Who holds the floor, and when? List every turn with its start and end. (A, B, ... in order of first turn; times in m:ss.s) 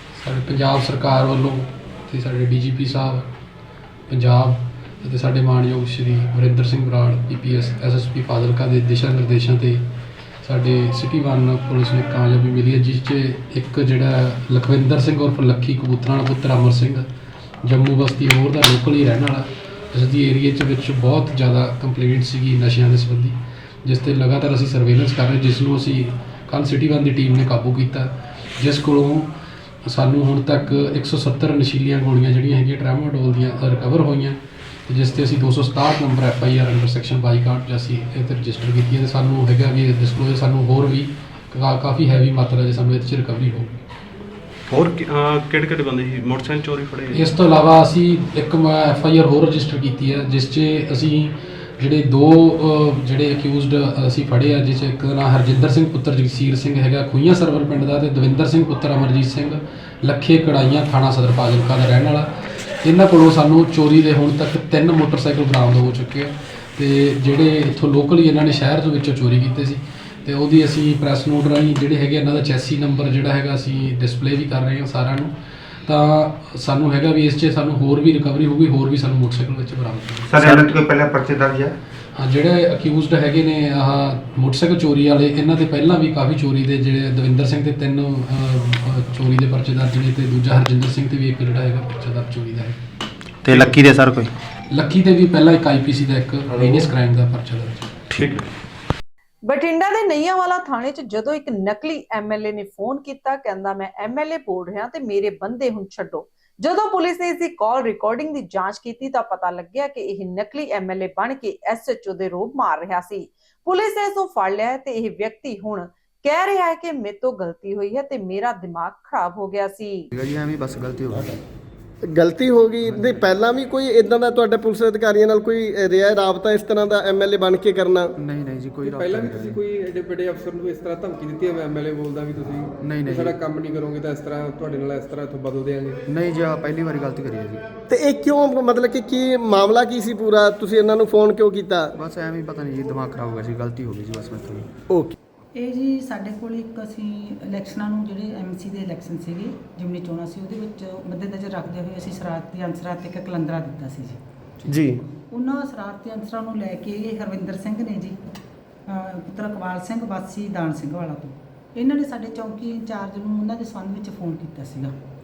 0:00.1-0:03.3 A
0:04.1-0:09.9 A
0:10.4-0:17.1 A
0:17.6-0:43.8 A
0:44.7-0:47.4 B
0:47.1-1:20.3 A
1:20.3-1:21.8 C
1:22.1-1:32.8 A
1:33.4-1:34.3 C
1:34.7-1:38.0 A
1:36.5-1:36.9 B
1:39.4-2:00.1 D
2:00.1-2:01.4 C
2:02.1-2:08.1 E
2:02.8-2:03.2 C
2:08.2-2:09.6 C
2:08.8-2:16.0 F
2:12.8-2:13.4 C
2:16.1-2:17.7 C
2:17.9-2:21.9 E
2:21.9-2:24.7 C
2:25.5-2:34.2 G
2:34.7-2:35.0 E
2:35.3-2:38.2 G
2:38.9-2:44.9 G